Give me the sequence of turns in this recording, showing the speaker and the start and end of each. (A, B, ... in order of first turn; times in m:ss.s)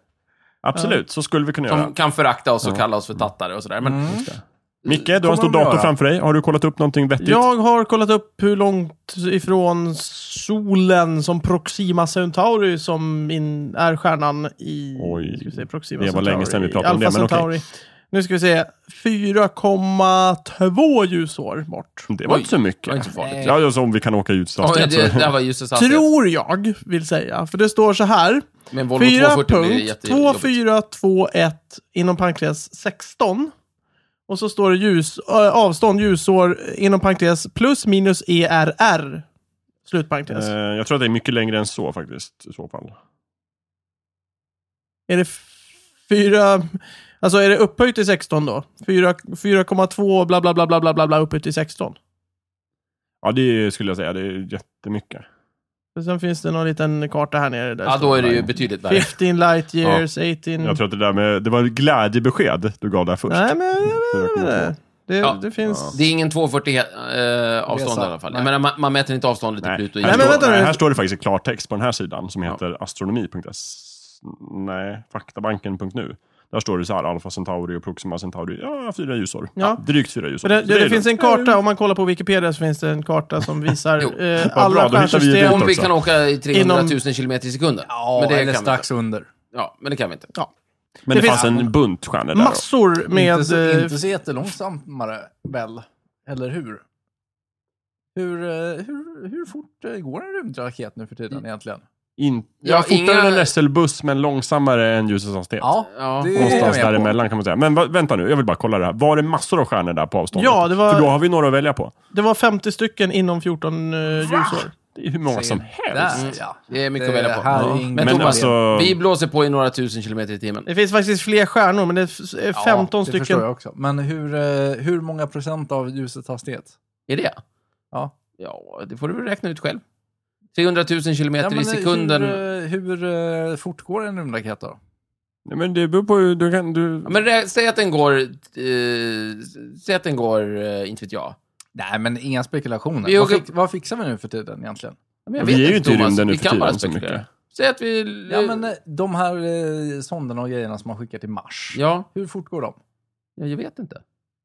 0:00.6-0:01.9 A
0:01.7-0:04.2 B
0:03.8-0:04.3 C
0:04.1-0:07.4 A
0:05.1-0:05.9 C
0:07.2-0:22.1 D
0:15.0-0:17.5 A
0:22.1-0:25.3 A
0:22.2-0:23.6 B
0:23.2-0:23.5 C
0:24.6-0:26.0 B
0:25.7-0:33.5 D
0:28.7-0:30.5 B
0:34.3-0:39.2 D
0:39.8-0:40.5 D
0:40.3-0:42.9 A
0:45.1-0:45.5 D
0:46.0-0:52.0 D
0:53.2-0:55.2 A
0:56.0-1:00.8 D
0:57.8-0:59.1 B
1:00.6-1:04.7 A
1:03.3-1:06.0 D
1:05.2-1:10.5 B
1:05.6-1:05.9 A
1:07.7-1:08.5 C
1:09.6-1:21.2 A
1:10.0-1:10.8 D
1:20.4-1:25.8 D
1:21.2-1:21.5 C
1:24.4-1:25.9 A
1:25.4-1:28.9 B
1:26.5-1:27.0 D
1:27.9-1:29.3 C
1:29.5-1:30.3 B
1:31.1-1:32.6 A
1:31.1-1:31.7 D
1:31.3-1:31.7 C
1:32.3-1:34.0 D
1:33.1-1:36.8 C
1:38.1-1:41.8 C
1:42.2-1:51.9 A
1:42.6-1:43.5 B
1:45.6-1:47.2 C
1:45.9-1:46.9 B
1:50.3-1:51.1 D
1:52.1-1:54.7 D
1:54.3-1:56.3 A
1:55.3-1:58.5 C
1:56.1-2:00.7 B
1:57.5-1:59.0 A
2:00.7-2:03.4 D
2:02.5-2:06.8 C
2:07.1-2:07.4 B
2:08.4-2:09.8 B
2:10.5-2:12.4 B
2:11.4-2:14.8 C
2:15.4-2:17.1 A
2:17.0-2:21.4 B
2:21.8-2:25.0 C
2:23.0-2:23.4 B
2:25.3-2:28.6 B
2:25.4-2:27.2 A
2:28.3-2:32.8 C
2:31.7-2:32.1 B
2:33.4-2:34.0 B